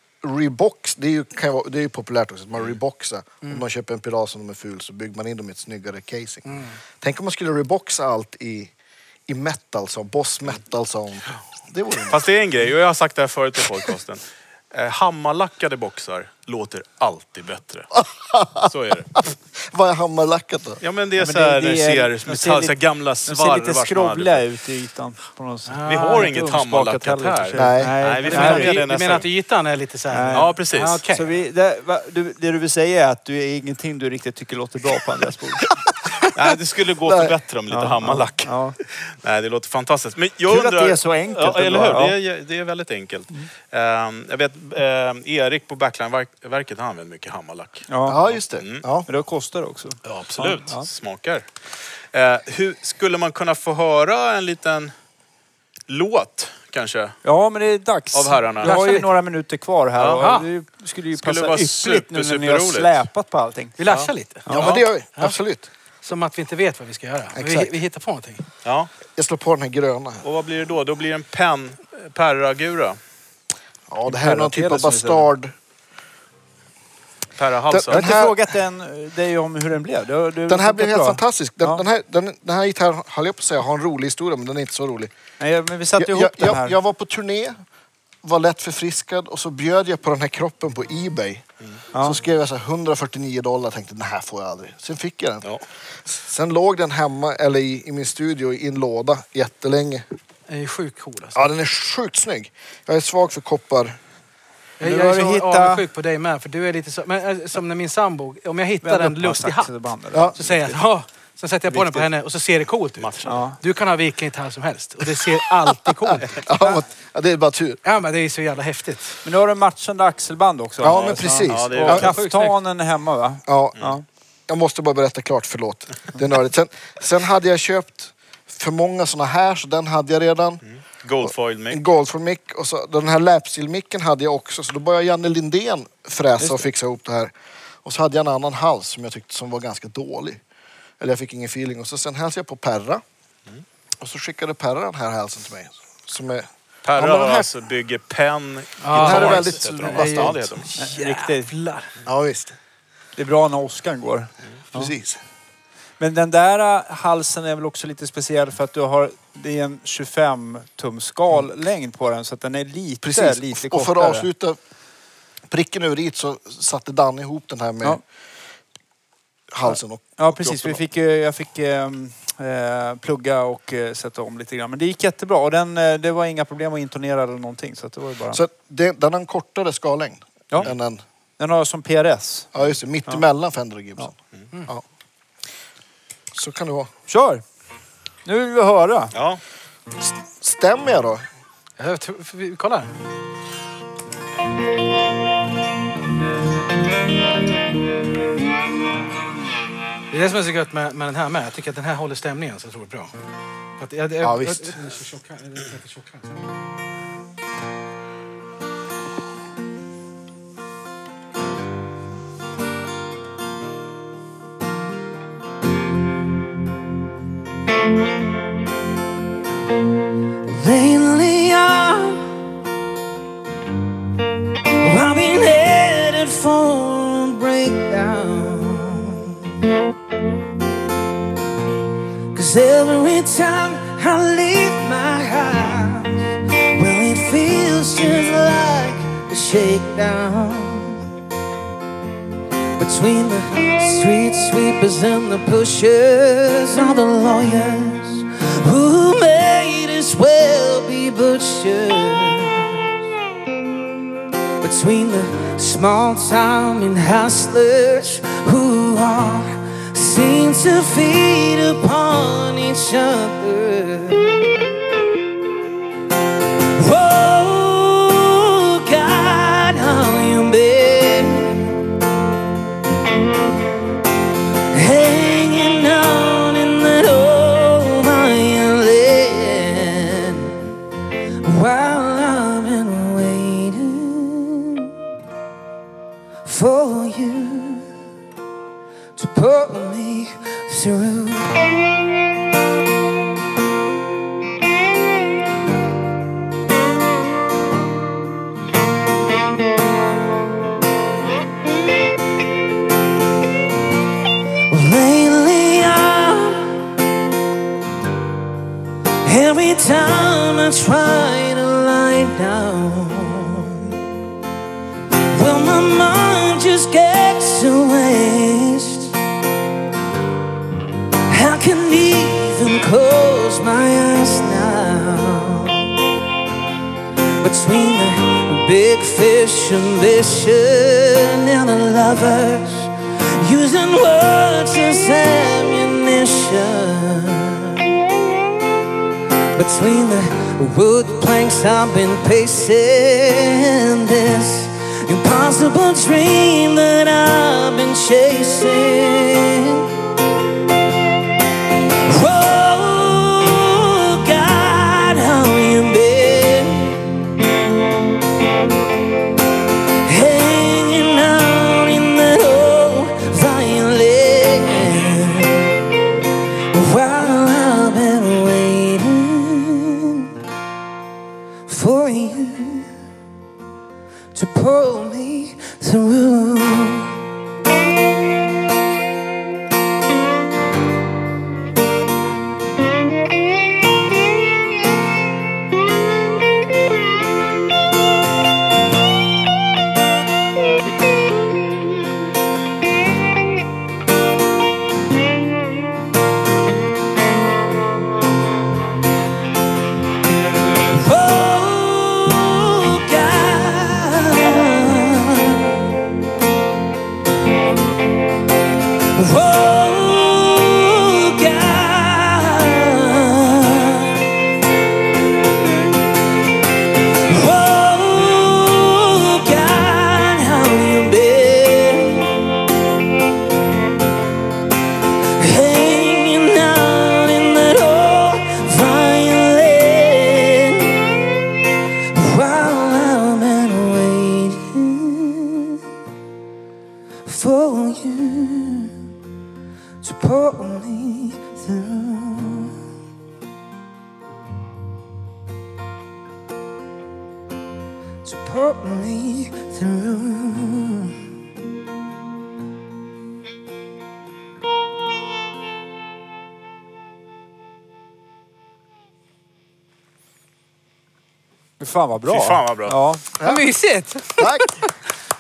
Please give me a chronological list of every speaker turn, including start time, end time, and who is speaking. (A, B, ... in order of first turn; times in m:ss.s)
0:00.2-0:08.7 A
0:06.5-0:06.8 B
0:09.3-0:12.2 A
0:12.1-0:17.9 C
0:17.9-0:20.8 A
0:18.6-0:19.3 C
0:20.8-0:24.4 C
0:21.2-0:22.7 D
0:23.3-0:28.8 D
0:25.7-0:26.3 B
0:25.9-0:29.3 C
0:27.6-0:28.0 A
0:28.2-0:31.3 B
0:30.1-0:30.6 D
0:30.3-0:31.0 C
0:31.1-0:35.7 D
0:36.3-0:48.8 C
0:37.0-0:37.4 A
0:37.7-0:38.8 D
0:40.5-0:42.2 D
0:47.9-0:48.2 D
0:48.0-0:49.1 A
0:49.0-0:50.9 D
0:50.1-0:51.5 C
0:52.1-0:54.9 C
0:55.9-0:57.2 C
0:57.2-1:03.8 D
0:58.1-0:58.8 C
0:58.6-0:59.1 B
1:00.0-1:00.3 C
1:00.2-1:00.5 B
1:01.2-1:03.1 C
1:03.8-1:05.4 B
1:04.5-1:04.7 D
1:04.5-1:05.7 A
1:06.0-1:08.4 B
1:07.4-1:07.7 A
1:08.6-1:08.9 C
1:09.2-1:10.2 A
1:10.2-1:13.0 C
1:13.9-1:15.6 A
1:14.1-1:15.3 D
1:17.4-1:18.1 C
1:17.7-1:18.5 A
1:17.9-1:21.8 D
1:20.5-1:25.1 A
1:25.4-1:26.8 D
1:26.0-1:27.6 A
1:28.2-1:35.5 A
1:31.9-1:32.2 D
1:36.0-1:40.0 A
1:40.5-1:41.4 B
1:41.4-1:44.0 A
1:44.8-1:49.7 B
1:44.8-1:45.8 D
1:48.8-1:50.8 D
1:50.1-1:50.4 A
1:50.4-1:56.7 B
1:51.7-1:52.0 D
1:53.0-1:53.4 C
1:53.3-1:53.6 D
1:56.1-1:57.8 A
1:57.8-1:59.2 B
1:59.2-2:04.0 D
2:00.8-2:02.2 A
2:00.8-2:02.1 C
2:01.9-2:02.6 B
2:03.5-2:03.8 A
2:04.5-2:10.6 A
2:10.7-2:11.8 C
2:11.2-2:17.3 A
2:16.4-2:16.7 D
2:17.8-2:20.4 A
2:21.0-2:23.0 A
2:24.0-2:27.5 A
2:26.9-2:30.7 C
2:28.8-2:31.9 B
2:28.9-2:30.5 A
2:30.8-2:31.5 D
2:32.0-2:32.6 A
2:33.2-2:35.0 D
2:34.7-2:35.2 A
2:36.0-2:44.3 D
2:43.0-2:44.6 A
2:45.5-2:48.0 A
2:49.5-2:50.8 A
2:49.7-2:58.4 D
2:58.3-3:01.0 A
3:01.4-3:02.5 D
3:02.5-3:04.1 A
3:06.3-3:06.9 A
3:07.1-3:07.4 D
3:08.2-3:09.1 D
3:09.1-3:09.4 C
3:10.0-3:11.2 A
3:11.8-3:12.9 B
3:20.1-3:23.1 B
3:23.8-3:26.3 B
3:24.2-3:24.8 A
3:40.5-3:42.4 E
3:44.8-3:49.4 E
3:52.3-4:01.0 E
4:02.8-4:12.9 E
4:14.6-4:24.7 E
4:26.6-4:31.8 E
4:34.7-4:40.7 E
4:41.4-4:44.9 E
4:46.4-4:47.9 E
4:49.2-4:51.8 E
5:04.7-5:07.0 E
5:09.2-5:14.0 E
5:15.3-5:19.2 E
5:21.3-5:25.8 E
5:27.4-5:37.9 E
5:39.6-5:49.9 E
5:52.1-5:57.1 E
6:00.0-6:05.7 E
6:06.7-6:10.3 E
6:11.7-6:12.9 E
6:14.3-6:17.2 E
6:40.8-6:45.8 E
6:49.1-6:54.2 E
6:57.1-7:02.5 E
7:05.4-7:11.4 E
7:12.1-7:15.8 E
7:17.2-7:19.0 E
7:20.0-7:22.8 E
7:28.2-7:31.2 E
7:41.8-7:43.2 D
7:42.3-7:43.0 C
7:43.4-7:43.6 A
7:43.4-7:44.8 B
7:44.4-7:44.8 A